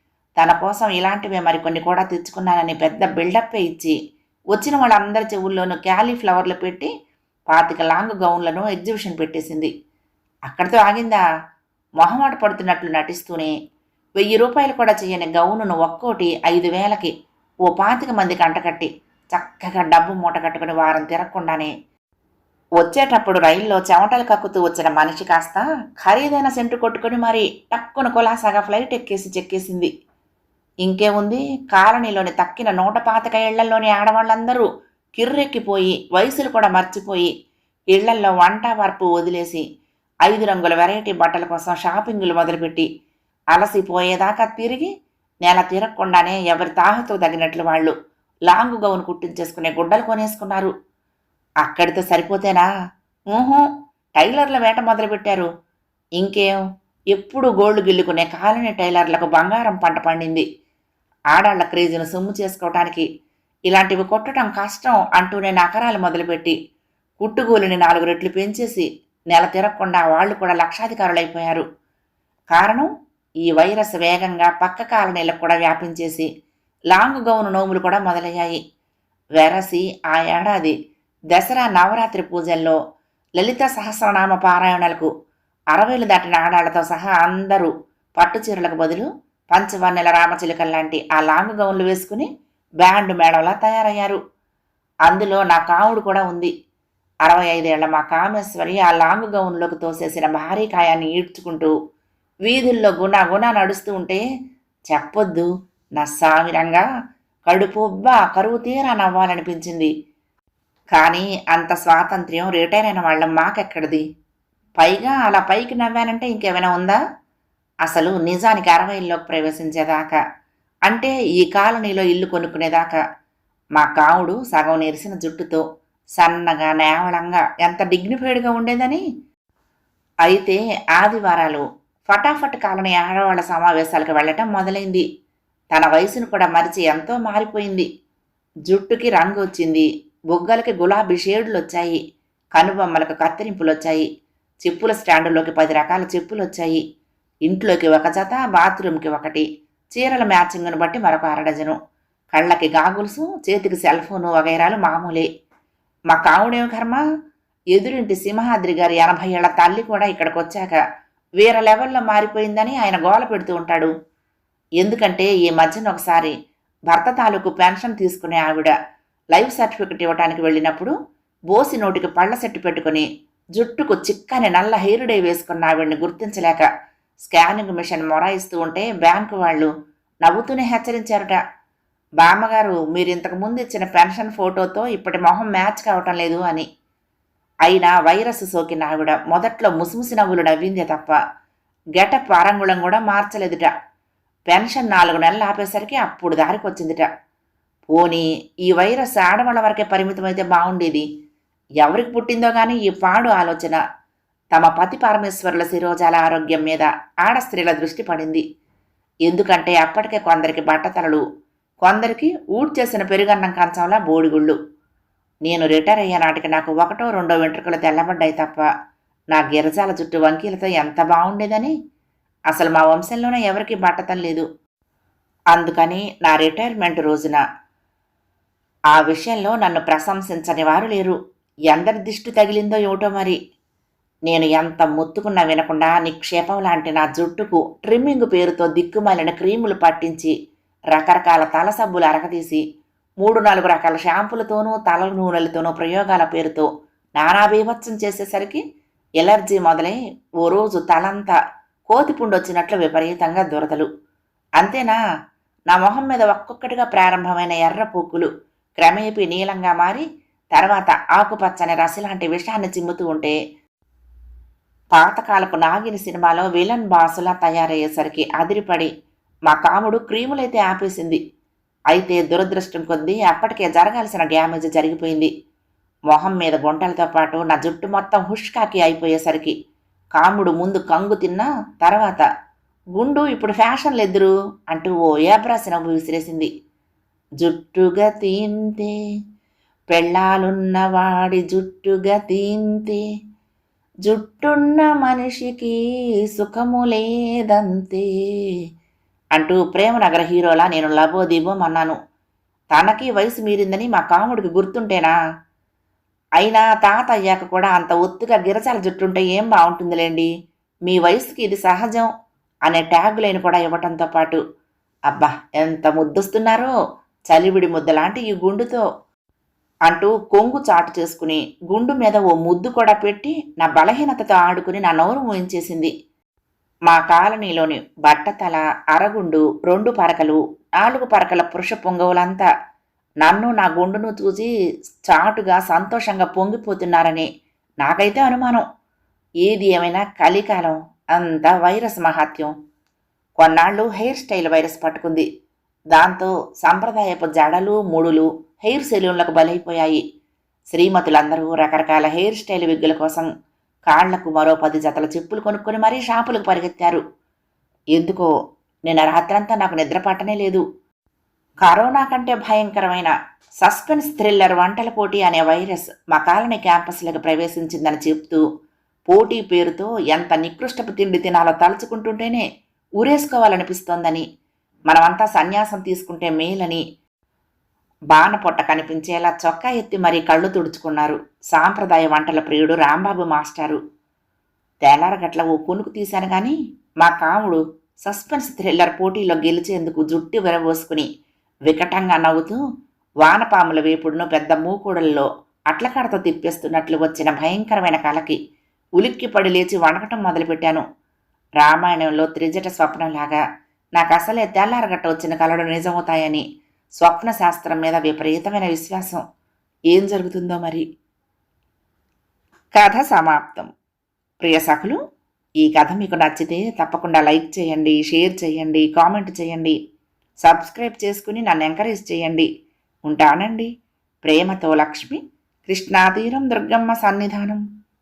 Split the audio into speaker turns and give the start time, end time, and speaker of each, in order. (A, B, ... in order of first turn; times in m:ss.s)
0:00.4-0:04.0 A
0:04.5-0:06.9 A
0:07.5-0:09.7 A
0:10.5-0:11.2 A
0:12.0-0:13.5 A
0:14.2-0:17.1 A
0:17.7-0:21.7 A
0:22.8-0:29.9 A
0:30.8-0:37.3 A
0:37.9-0:39.6 A
0:40.2-0:42.9 A
0:43.5-0:44.9 A
0:45.4-0:47.9 A
0:48.5-0:50.7 A
0:51.6-0:52.7 A
0:53.3-0:55.5 A
0:56.2-0:56.6 A
0:57.1-1:00.4 A
1:01.3-1:03.0 A
1:03.7-1:06.5 A
1:07.2-1:11.6 A
1:12.5-1:12.9 A
1:13.4-1:16.3 A
1:16.9-1:18.6 A
1:19.4-1:20.7 A
1:21.3-1:22.8 A
1:23.4-1:25.1 A
1:25.7-1:32.3 A
1:32.8-1:34.2 A
1:35.1-1:36.5 A
1:37.2-1:41.7 A
1:42.4-1:44.2 A
1:44.9-1:46.8 A
1:47.5-1:49.9 A
1:50.9-1:54.0 A
1:54.8-1:57.0 A
1:57.8-2:00.2 A
2:00.9-2:03.0 A
2:03.8-2:05.6 A
2:06.2-2:09.0 A
2:10.2-2:15.0 A
2:15.7-2:17.9 A
2:18.7-2:22.0 A
2:22.5-2:24.0 A
2:24.6-2:26.8 A
2:27.4-2:31.8 A
2:32.3-2:35.3 A
2:36.1-2:37.0 A
2:37.7-2:40.8 A
2:41.4-2:43.9 A
2:44.8-2:46.3 A
2:46.9-2:48.7 A
2:49.3-2:50.9 A
2:51.5-2:56.7 A
2:57.2-2:59.7 A
3:00.2-3:01.4 A
3:02.2-3:06.6 A
3:07.6-3:11.2 A
3:12.0-3:13.7 A
3:14.5-3:17.1 A
3:17.9-3:21.0 A
3:21.8-3:23.8 A
3:24.5-3:28.4 A
3:29.3-3:31.2 A
3:31.8-3:34.6 A
3:35.4-3:38.7 A
3:39.3-3:41.7 A
3:42.5-3:44.4 A
3:45.5-3:47.4 A
3:48.9-3:51.2 A
3:51.7-3:53.4 A
3:54.3-4:00.3 A
4:00.9-4:02.6 A
4:03.2-4:08.6 A
4:09.2-4:11.3 A
4:11.9-4:13.9 A
4:14.6-4:15.0 A
4:15.7-4:23.4 A
4:24.9-4:28.9 A
4:29.5-4:31.2 A
4:31.9-4:35.3 A
4:36.1-4:39.5 A
4:40.1-4:42.2 A
4:43.0-4:46.5 A
4:47.4-4:48.9 A
4:49.9-4:53.0 A
4:54.0-4:55.7 A
4:56.3-4:58.5 A
4:59.3-5:02.0 A
5:02.7-5:05.1 A
5:06.4-5:10.3 A
5:10.9-5:12.1 A
5:12.7-5:14.4 A
5:15.1-5:16.7 A
5:17.3-5:18.8 A
5:19.9-5:25.9 A
5:26.9-5:32.4 A
5:33.2-5:34.5 A
5:35.0-5:37.3 A
5:37.8-5:38.6 A
5:39.4-5:42.5 A
5:43.4-5:45.2 A
5:45.9-5:50.0 A
5:50.7-5:53.3 A
5:53.9-5:57.0 A
5:57.9-5:58.3 A
5:58.9-6:00.6 A
6:01.6-6:08.4 A
6:09.1-6:12.4 A
6:13.0-6:14.2 A
6:14.9-6:16.8 A
6:18.1-6:23.8 A
6:24.8-6:31.1 A
6:31.7-6:32.6 A
6:33.2-6:38.4 A
6:39.0-6:40.8 A
6:41.6-6:43.4 A
6:44.0-6:46.4 A
6:47.0-6:49.2 A
6:49.9-6:50.8 A
6:52.8-6:53.7 A
6:54.4-6:55.0 A
6:55.6-6:59.8 A
7:00.4-7:02.5 A
7:03.0-7:03.7 A
7:04.2-7:07.6 A